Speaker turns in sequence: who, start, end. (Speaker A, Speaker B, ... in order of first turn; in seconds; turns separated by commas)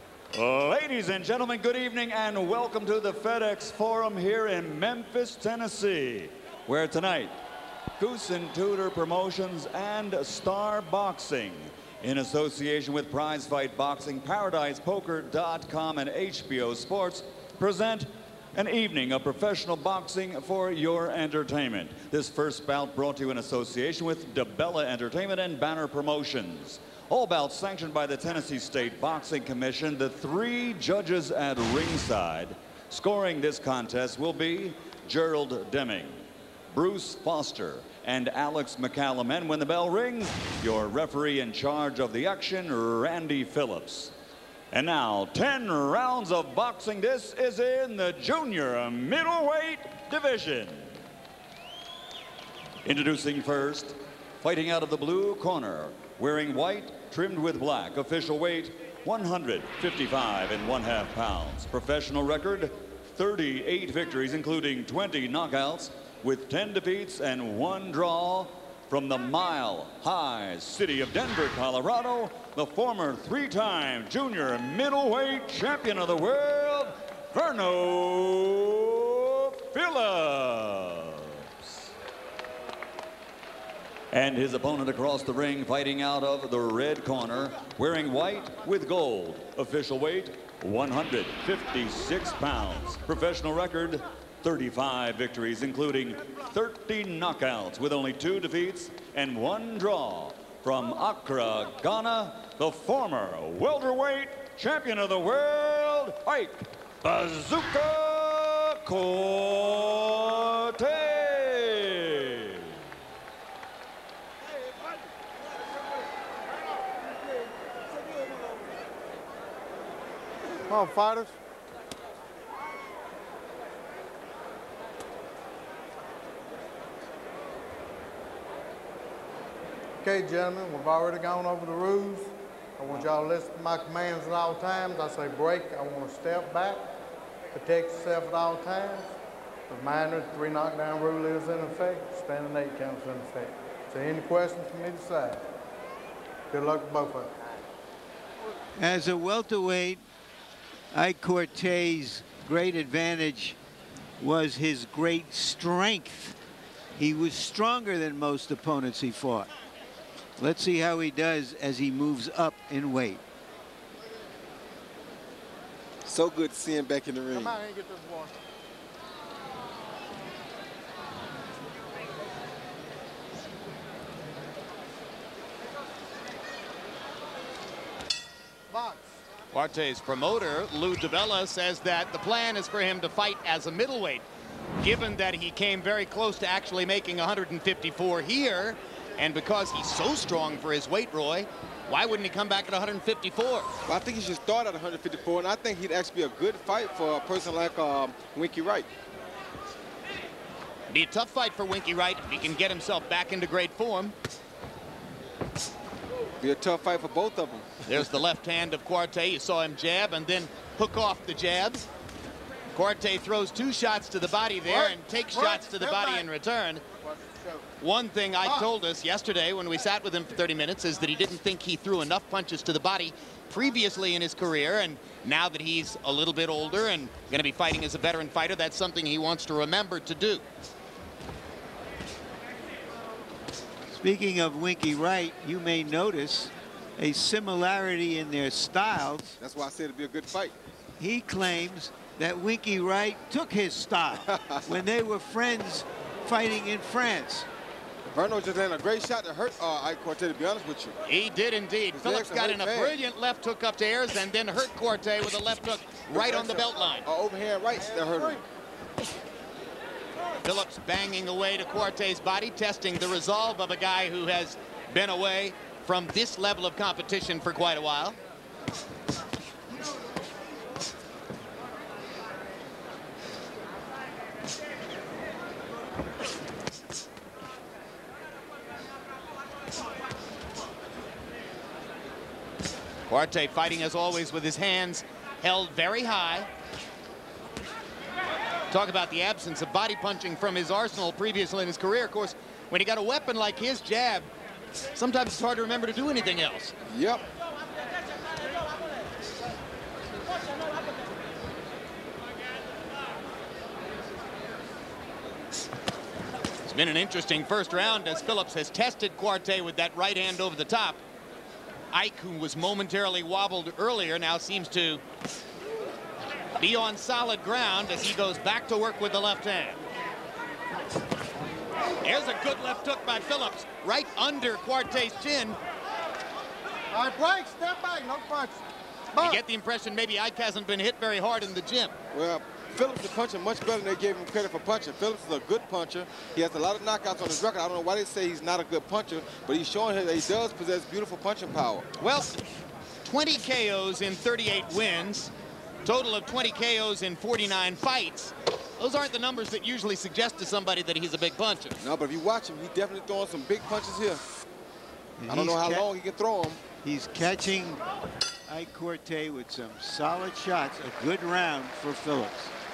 Speaker A: 0.3-7.4, Speaker A: 8.0-44.1, Speaker A: 44.7-51.0, Speaker A: 52.8-81.7, Speaker A: 84.1-112.8, Speaker B: 120.7-121.3, Speaker B: 130.0-136.8, Speaker B: 137.5-139.1, Speaker B: 139.7-145.4, Speaker B: 146.5-147.3, Speaker C: 148.8-150.0, Speaker C: 150.9-153.6, Speaker C: 154.2-156.4, Speaker C: 156.9-159.5, Speaker C: 160.4-163.2, Speaker D: 166.1-167.6, Speaker B: 167.3-168.3, Speaker B: 178.7-179.2, Speaker E: 179.5-184.2, Speaker E: 184.8-193.7, Speaker D: 193.9-198.9, Speaker E: 200.9-204.1, Speaker D: 206.4-207.7, Speaker E: 207.8-211.8, Speaker E: 212.7-216.8, Speaker B: 214.7-216.3, Speaker B: 217.0-217.7, Speaker E: 217.8-230.4, Speaker B: 218.4-218.7, Speaker C: 233.9-239.4, Speaker D: 239.4-240.5, Speaker C: 241.0-247.5, Speaker D: 244.3-244.6, Speaker D: 248.1-250.9, Speaker E: 251.1-257.0, Speaker D: 251.9-253.0, Speaker D: 256.1-258.4, Speaker B: 257.7-258.4, Speaker E: 260.4-268.2, Speaker E: 283.1-286.5, Speaker E: 288.7-294.3, Speaker E: 294.9-296.7, Speaker D: 296.9-297.2, Speaker E: 306.6-311.0, Speaker E: 311.9-315.0, Speaker E: 316.6-319.8, Speaker E: 322.0-325.6, Speaker B: 326.9-328.6, Speaker B: 329.1-329.4, Speaker E: 329.2-331.9, Speaker D: 332.1-341.9, Speaker E: 342.0-342.4, Speaker E: 343.0-345.3, Speaker E: 345.8-351.8, Speaker D: 351.8-354.2, Speaker C: 355.2-355.9, Speaker D: 355.3-356.6, Speaker C: 356.8-357.8, Speaker C: 358.5-362.5